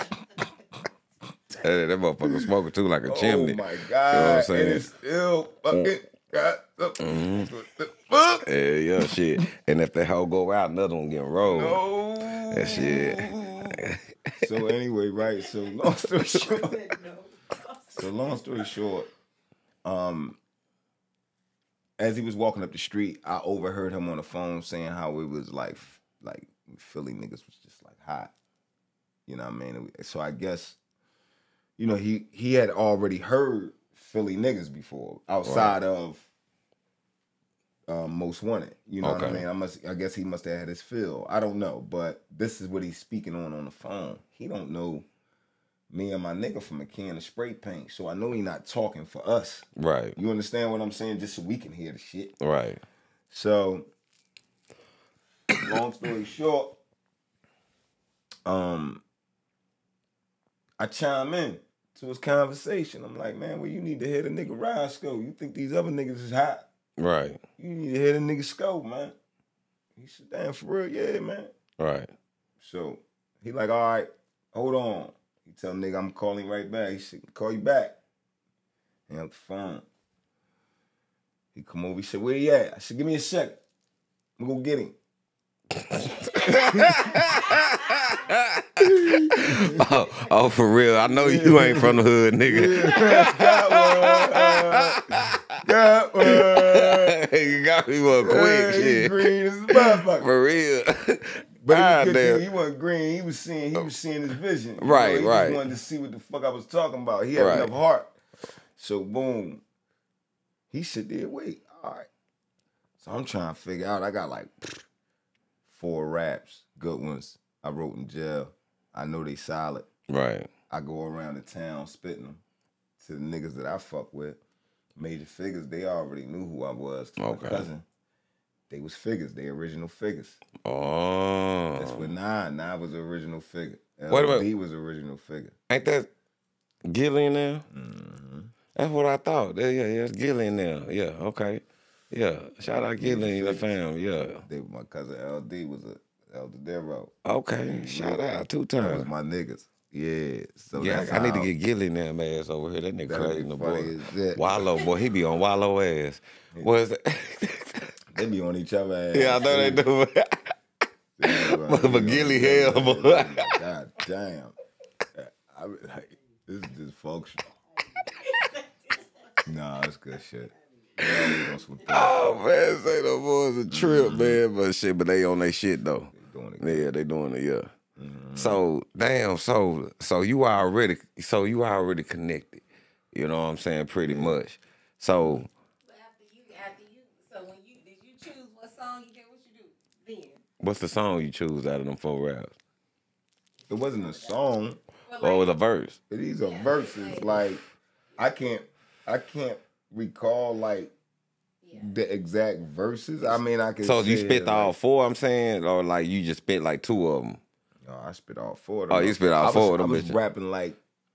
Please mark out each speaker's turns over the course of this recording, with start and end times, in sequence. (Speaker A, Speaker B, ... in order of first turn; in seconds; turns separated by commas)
Speaker A: 1.6-4.8, Speaker B: 2.2-2.5, Speaker B: 3.0-9.1, Speaker A: 7.0-7.5, Speaker A: 8.4-11.8, Speaker B: 11.4-13.8, Speaker A: 12.5-14.0, Speaker B: 14.4-16.9, Speaker C: 16.5-18.1, Speaker B: 17.9-19.1, Speaker B: 19.8-20.4, Speaker B: 22.0-28.3, Speaker B: 29.2-30.8, Speaker B: 31.8-36.3, Speaker A: 35.4-35.8, Speaker B: 37.9-45.1, Speaker A: 39.0-39.5, Speaker B: 45.9-52.3, Speaker A: 49.8-50.2, Speaker A: 52.4-52.8, Speaker B: 53.3-53.9, Speaker B: 55.6-56.8, Speaker B: 58.5-59.0, Speaker B: 60.8-66.7, Speaker A: 67.0-67.4, Speaker B: 67.6-69.1, Speaker B: 70.0-71.5, Speaker A: 71.8-72.1, Speaker B: 72.6-78.0, Speaker B: 79.1-79.8, Speaker B: 81.5-83.6, Speaker B: 84.4-85.0, Speaker A: 85.8-95.5, Speaker B: 86.4-87.3, Speaker B: 88.8-89.8, Speaker B: 91.1-95.0, Speaker B: 95.6-97.2, Speaker A: 96.2-102.5, Speaker B: 98.2-100.3, Speaker B: 101.6-108.1, Speaker A: 104.8-105.7, Speaker A: 107.3-107.7, Speaker B: 108.8-109.6, Speaker B: 110.7-112.1, Speaker B: 113.0-114.8, Speaker B: 115.7-119.9, Speaker A: 120.1-120.5, Speaker B: 120.7-122.4, Speaker B: 123.0-124.4, Speaker B: 125.0-127.8, Speaker A: 127.2-127.7, Speaker B: 128.7-130.4, Speaker A: 130.6-132.1, Speaker B: 131.8-135.5, Speaker A: 134.1-134.5, Speaker A: 135.7-136.1, Speaker A: 136.9-137.6, Speaker B: 137.7-138.5, Speaker A: 138.7-144.4, Speaker B: 143.0-147.1, Speaker A: 147.2-149.1, Speaker B: 147.7-151.5, Speaker A: 150.8-157.9, Speaker B: 153.1-154.8, Speaker B: 158.1-159.8, Speaker A: 159.1-160.5, Speaker B: 161.2-164.6, Speaker A: 161.2-163.6, Speaker B: 165.1-167.5, Speaker B: 169.4-172.1, Speaker A: 171.0-177.7, Speaker B: 173.7-174.4, Speaker B: 176.1-176.9, Speaker B: 177.9-178.6, Speaker A: 178.3-185.5, Speaker B: 184.0-184.4, Speaker B: 185.1-185.4, Speaker C: 185.9-190.4, Speaker A: 190.6-192.5, Speaker B: 193.7-194.8, Speaker C: 195.1-195.5, Speaker A: 195.2-196.0, Speaker B: 196.1-197.6, Speaker C: 196.4-197.3, Speaker B: 198.2-200.9, Speaker B: 201.7-204.7, Speaker A: 203.8-207.4, Speaker B: 207.8-210.8, Speaker A: 208.9-210.2